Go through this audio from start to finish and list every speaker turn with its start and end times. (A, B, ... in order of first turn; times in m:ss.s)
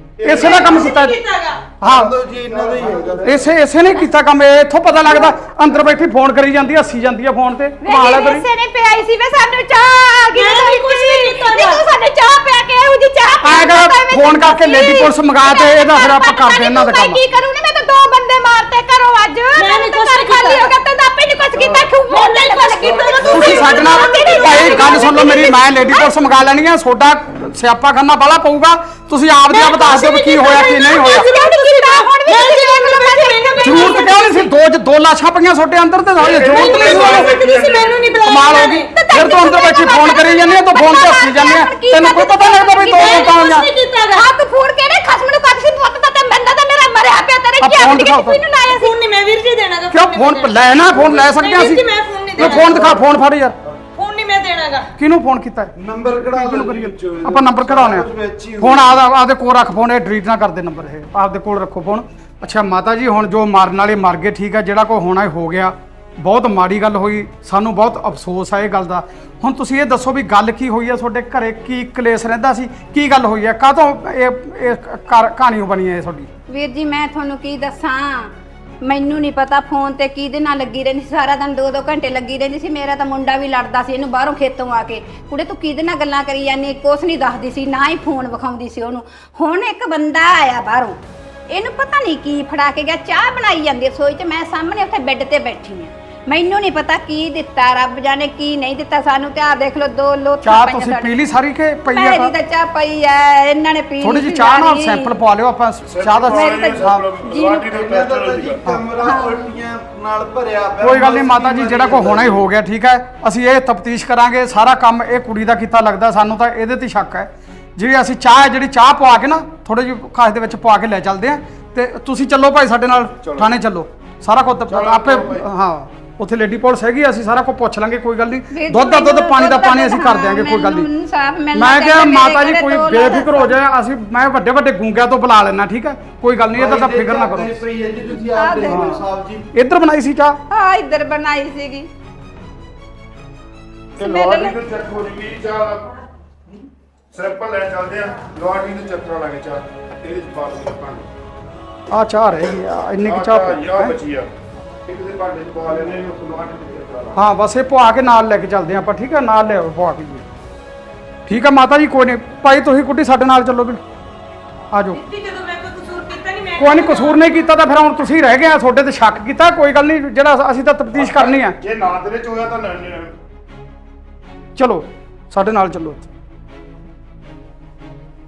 0:00.2-0:01.0 A
0:00.2-0:01.2 B
0:00.4-0:01.6 C
0:01.8-0:02.1 B
0:01.8-0:03.5 D
0:02.4-0:03.5 A
0:03.2-0:08.5 B
0:07.8-0:26.1 E
0:10.3-0:11.8 C
0:13.4-0:17.2 B
0:19.6-0:20.7 C
0:21.5-0:22.0 A
0:22.5-0:23.2 C
0:22.7-0:25.3 A
0:23.3-0:31.3 B
0:29.5-0:34.5 E
0:32.3-0:33.6 C
0:33.6-0:37.3 B
0:36.2-0:38.2 A
0:36.6-0:38.5 C
0:38.2-0:43.7 B
0:38.4-0:48.9 E
0:43.2-0:44.3 C
0:47.6-0:48.4 B
0:48.7-0:53.0 C
0:49.9-0:51.8 B
0:50.9-0:51.3 D
0:52.4-0:53.0 D
0:52.4-0:53.6 B
0:54.0-0:54.9 C
0:55.0-0:58.1 B
0:55.8-0:59.0 D
0:58.6-1:16.3 B
1:16.5-1:18.3 E
1:18.8-1:31.0 E
1:31.5-1:41.2 E
1:40.4-1:42.3 B
1:41.9-1:45.1 E
1:44.0-1:47.1 B
1:45.8-1:48.6 A
1:46.3-1:47.7 E
1:47.6-1:52.5 D
1:49.0-1:49.4 E
1:50.8-2:10.9 B
2:03.2-2:03.5 A
2:04.7-2:05.5 A
2:08.5-2:13.6 E
2:11.5-2:17.6 B
2:16.5-2:19.5 D
2:18.4-2:19.0 E
2:18.6-2:19.0 B
2:19.5-2:20.4 B
2:20.5-2:21.9 E
2:24.0-2:25.9 A
2:24.0-2:24.6 E
2:27.1-2:31.0 A
2:31.9-2:34.0 B
2:33.0-2:34.3 A
2:34.9-2:37.2 A
2:37.2-2:40.2 B
2:41.3-2:43.8 B
2:44.7-2:45.0 B
2:45.0-2:47.1 C
2:46.6-2:51.6 B
2:51.0-2:53.1 A
2:54.6-2:56.1 B